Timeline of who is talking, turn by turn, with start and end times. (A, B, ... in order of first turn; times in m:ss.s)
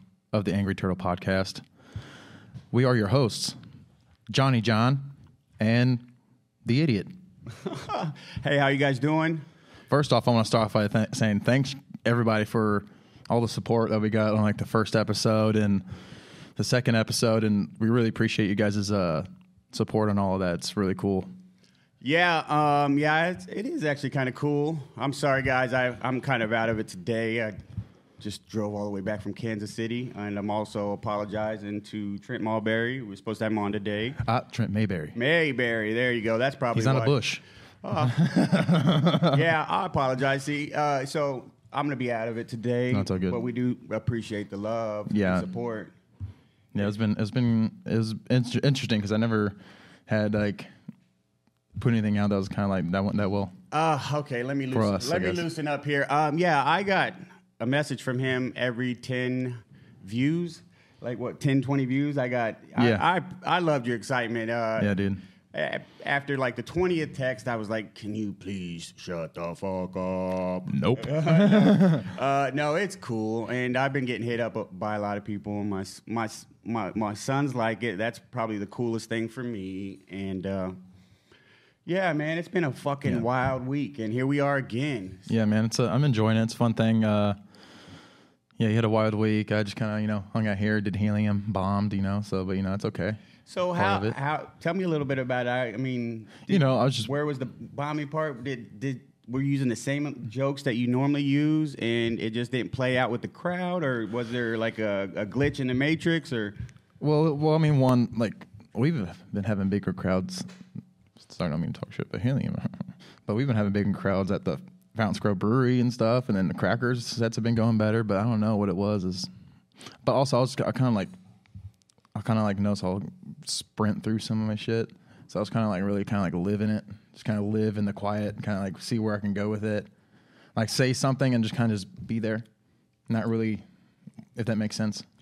0:00.3-0:01.6 A
0:02.7-0:03.6 A
0:04.3-0:05.1 A
0:05.6-0:06.0 A
0:06.6-0:07.1 A
0:07.6-0:09.4 B
0:09.9-0:15.8 A
0:16.6-0:21.3 A
0:22.0-0:27.5 B
0:28.2-0:34.2 B
0:34.2-0:35.1 A
0:35.1-0:37.2 B
0:36.7-0:37.4 A
0:37.8-0:38.3 B
0:38.0-0:39.4 A
0:39.2-0:45.9 B
0:42.9-0:43.4 A
0:45.1-0:45.4 A
0:46.7-0:49.6 A
0:50.1-0:50.7 A
0:51.8-0:53.5 A
0:53.7-1:04.9 B
0:54.7-0:55.4 A
1:02.8-1:03.1 A
1:04.8-1:05.2 A
1:05.5-1:20.8 B
1:10.7-1:12.1 A
1:21.8-1:25.3 B
1:25.3-1:27.4 A
1:28.6-1:33.2 A
1:33.4-1:46.6 B
1:33.8-1:34.1 A
1:36.5-1:37.1 A
1:47.0-1:50.5 A
1:51.2-1:59.3 A
2:00.0-2:01.1 A
2:02.1-2:09.9 A
2:10.6-2:12.4 A
2:13.1-2:13.6 A
2:14.4-2:15.0 A